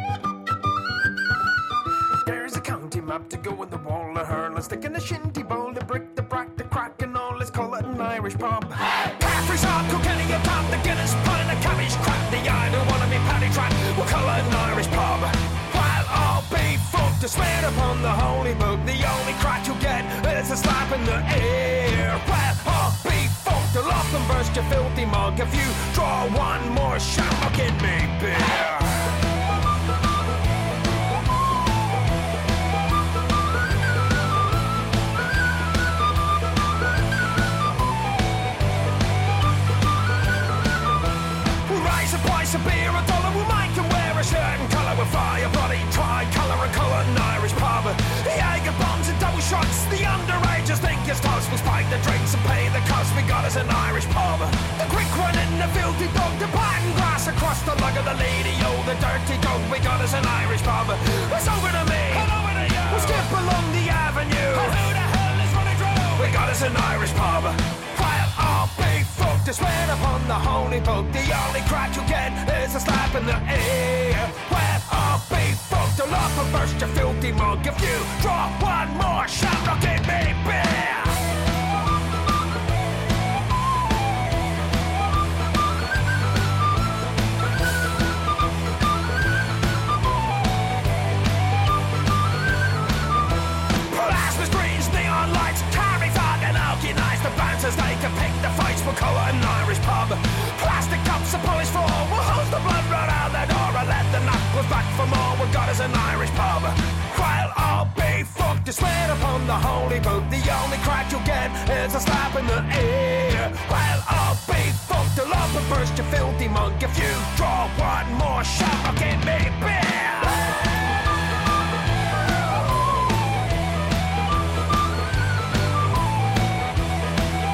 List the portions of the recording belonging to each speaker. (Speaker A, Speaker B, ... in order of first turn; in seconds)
Speaker A: 2.2-29.1, 41.7-81.2, 93.9-120.5